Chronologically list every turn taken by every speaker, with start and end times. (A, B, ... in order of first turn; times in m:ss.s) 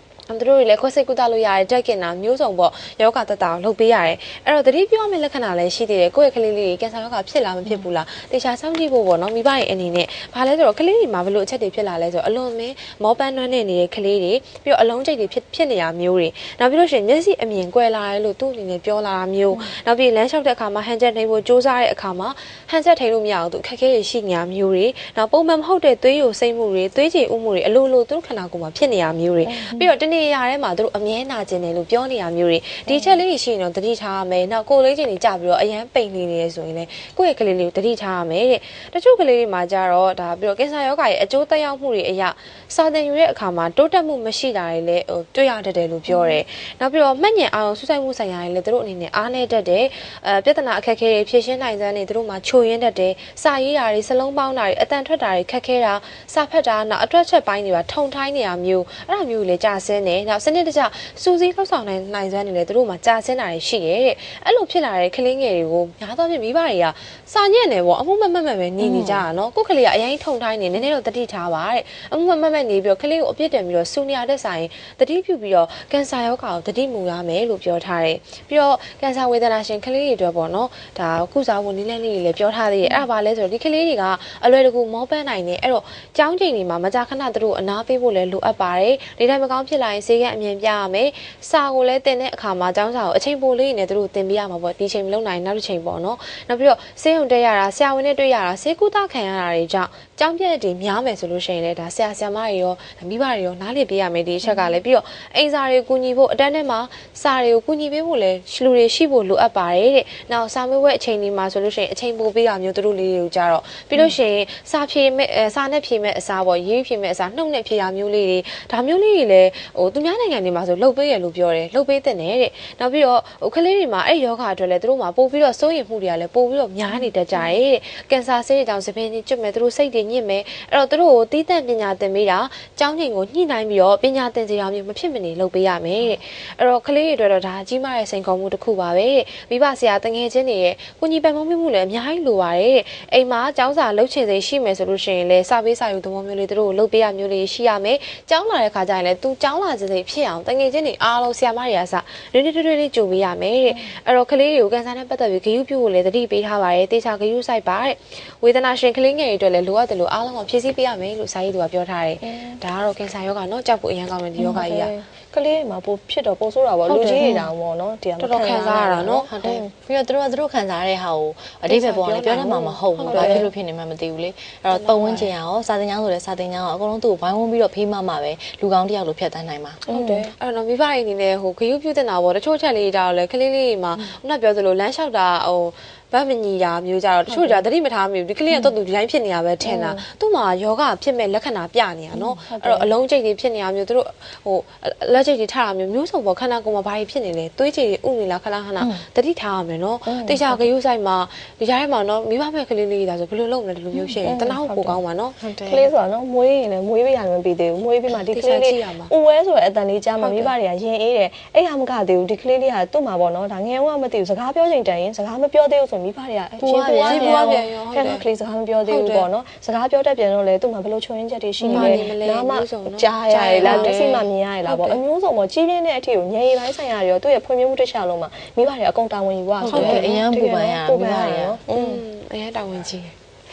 0:00.3-2:44.9 A
0:29.4-0:29.9 B
0:32.9-0:33.2 B
0:46.1-0:46.4 B
1:08.8-1:09.2 C
1:44.4-1:44.8 B
2:06.9-2:07.6 B
2:42.2-2:42.6 B
2:44.4-2:49.7 B
2:46.8-2:47.5 A
2:48.2-2:49.6 A
2:49.3-2:59.8 C
2:51.7-2:53.5 A
2:52.0-2:53.5 B
2:54.7-2:55.3 A
2:59.9-3:00.2 B
2:59.9-3:25.9 A
3:07.3-3:07.6 B
3:09.6-3:10.0 B
3:12.1-3:12.9 B
3:20.0-3:20.7 B
3:24.0-3:25.0 B
3:25.6-3:52.0 B
3:28.3-3:29.1 A
3:30.2-3:30.5 A
3:36.6-3:37.5 C
3:37.0-3:38.2 A
3:38.9-3:39.3 A
3:41.6-3:45.0 A
3:41.7-3:42.0 C
3:43.6-3:44.2 C
3:49.6-3:51.6 C
3:49.6-3:50.2 A
3:51.7-3:53.1 A